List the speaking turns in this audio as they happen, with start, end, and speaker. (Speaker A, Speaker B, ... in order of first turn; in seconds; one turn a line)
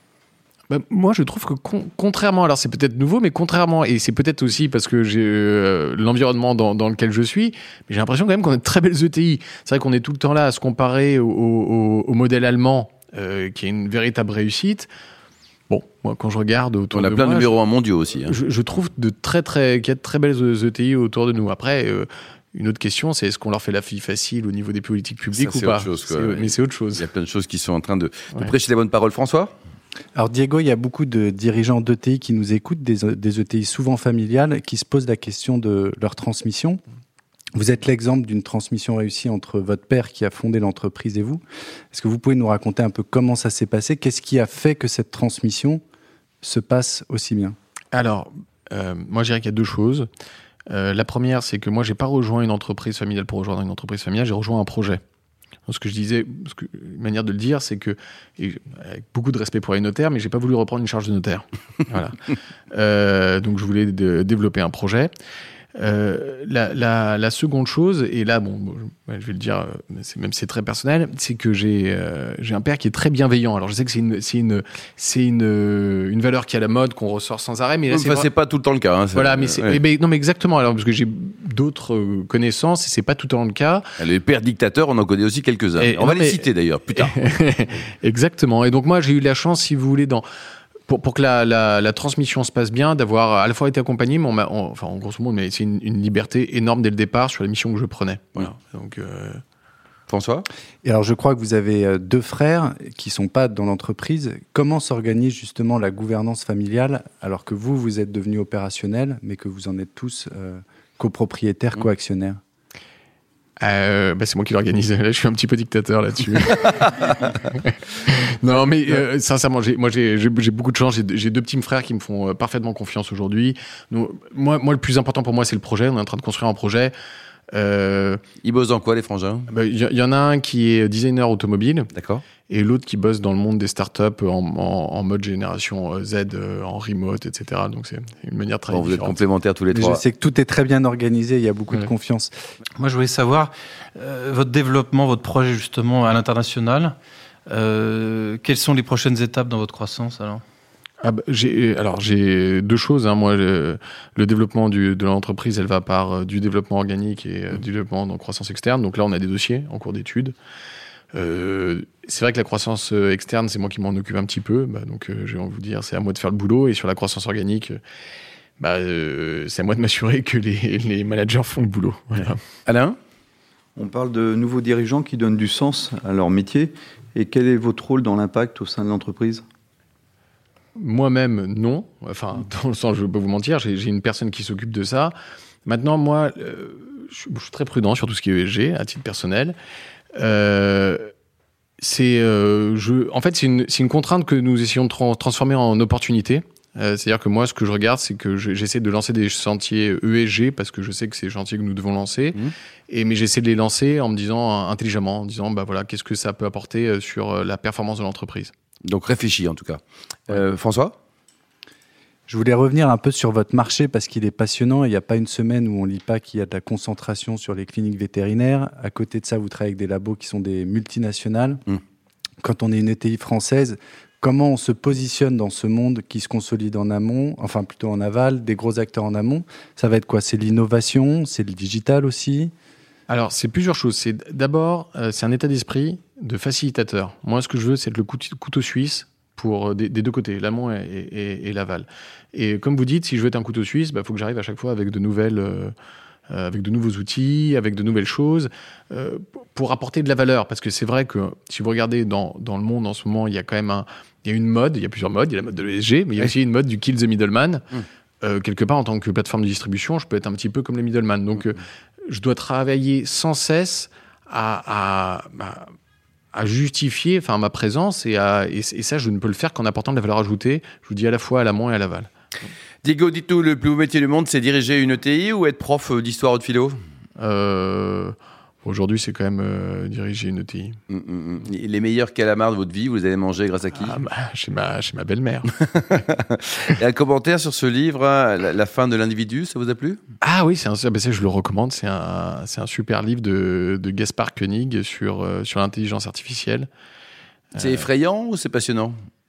Speaker A: 0.7-14.9
Speaker A: 15.7-17.5
Speaker B: 16.9-18.3
Speaker A: 18.3-27.1
Speaker B: 25.3-29.5
Speaker C: 30.1-36.8
Speaker C: 37.5-41.4
Speaker C: 41.9-45.8
Speaker C: 46.4-47.5
Speaker A: 47.9-50.1
Speaker A: 50.7-55.0
Speaker A: 55.7-65.1
Speaker A: 65.7-78.3
Speaker B: 77.9-79.8
Speaker A: 79.1-83.8
Speaker B: 84.0-87.1
Speaker A: 85.8-90.2
Speaker A: 90.9-99.4
Speaker B: 100.1-100.4
Speaker C: 100.8-112.4
Speaker A: 113.6-126.9
Speaker A: 127.5-128.2
Speaker B: 128.4-129.5
Speaker A: 129.5-131.9
Speaker B: 131.9-132.2
Speaker A: 132.4-139.2
Speaker B: 138.7-140.0
Speaker C: 139.7-142.3
Speaker D: 142.8-146.9
Speaker D: 147.5-150.4
Speaker A: 151.0-160.3
Speaker A: 161.1-167.8
Speaker A: 168.6-172.4
Speaker B: 172.7-172.9
Speaker E: 173.8-179.4
Speaker A: 180.8-185.1
Speaker A: 185.7-189.6
Speaker A: 190.1-191.1
Speaker A: 191.8-208.5
Speaker B: 208.8-210.9
Speaker C: 212.3-221.6
Speaker C: 222.4-232.5
Speaker A: 233.1-245.7
Speaker A: 246.3-257.6
Speaker A: 258.2-265.7
Speaker A: 266.3-272.1
Speaker B: 272.8-276.8
Speaker A: 277.2-280.8
Speaker B: 280.9-283.9
Speaker A: 283.8-285.5
Speaker B: 285.6-290.0
Speaker A: 290.2-296.7
Speaker B: 297.5-298.9